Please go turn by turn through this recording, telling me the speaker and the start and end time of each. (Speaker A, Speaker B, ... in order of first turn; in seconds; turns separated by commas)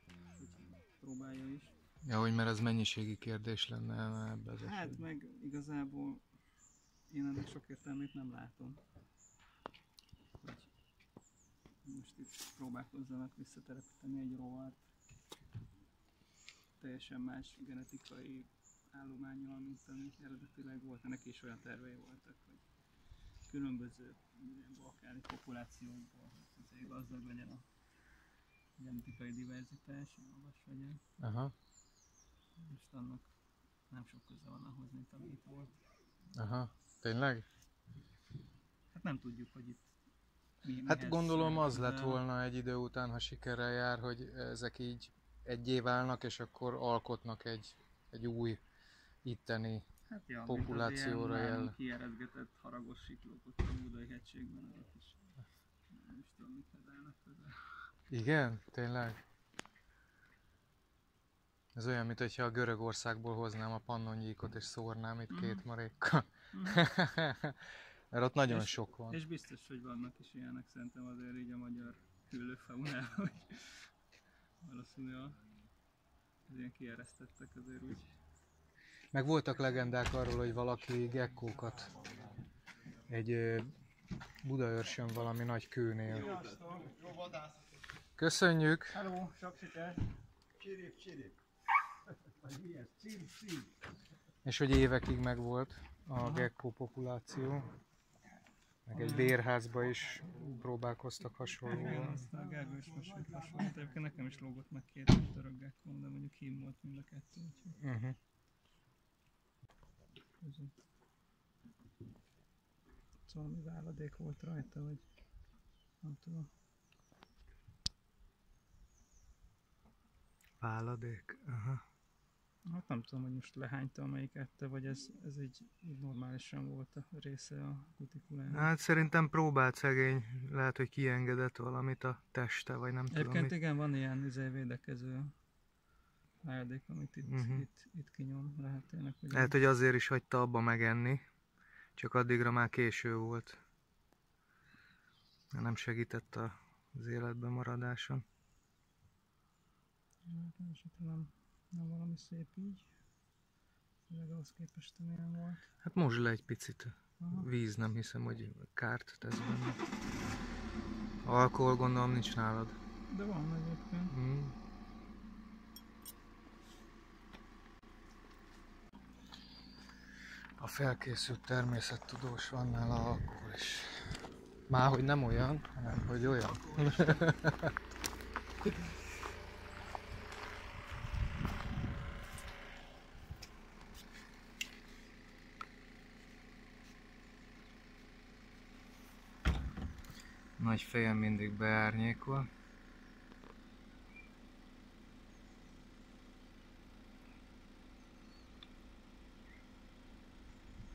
Speaker A: 0.4-1.7, Speaker B: 2.0-5.0, Speaker A: 4.6-6.2, Speaker A: 7.1-8.8, Speaker A: 10.4-10.7, Speaker A: 11.8-14.9, Speaker A: 16.8-22.6, Speaker A: 23.4-28.0, Speaker A: 28.8-31.0, Speaker B: 31.2-31.5, Speaker A: 32.6-33.3, Speaker A: 33.9-35.7, Speaker B: 36.3-37.5, Speaker A: 38.9-39.9, Speaker A: 40.6-42.2, Speaker B: 40.8-48.6, Speaker B: 49.2-49.8, Speaker A: 50.1-55.3, Speaker B: 50.5-51.7, Speaker A: 55.9-57.9, Speaker B: 58.1-59.2, Speaker B: 61.7-67.6, Speaker A: 65.3-65.6, Speaker A: 66.5-66.9, Speaker B: 68.1-69.2, Speaker A: 68.5-73.9, Speaker A: 74.6-75.4, Speaker A: 76.5-78.1, Speaker B: 79.1-81.9, Speaker B: 83.1-83.7, Speaker B: 84.4-86.3, Speaker B: 88.2-89.0, Speaker A: 88.9-90.0, Speaker C: 90.6-91.3, Speaker C: 92.4-93.6, Speaker B: 94.4-97.7, Speaker A: 96.2-96.5, Speaker B: 98.8-102.3, Speaker A: 98.9-99.4, Speaker A: 101.7-107.7, Speaker B: 107.8-108.2, Speaker A: 110.4-110.7, Speaker A: 113.3-115.0, Speaker A: 116.0-116.5, Speaker B: 120.6-121.8, Speaker A: 122.7-128.7, Speaker B: 128.5-133.5, Speaker A: 133.1-135.3, Speaker A: 136.4-139.6, Speaker B: 137.2-137.7, Speaker B: 139.3-141.2, Speaker B: 142.0-143.6, Speaker B: 145.5-148.2, Speaker A: 150.2-152.9, Speaker A: 154.1-155.6, Speaker B: 155.8-159.8, Speaker A: 157.2-157.5, Speaker B: 161.2-162.8, Speaker A: 163.1-164.1, Speaker B: 164.1-164.5, Speaker B: 170.6-174.0, Speaker B: 174.7-177.7, Speaker A: 176.6-177.1, Speaker B: 190.6-192.5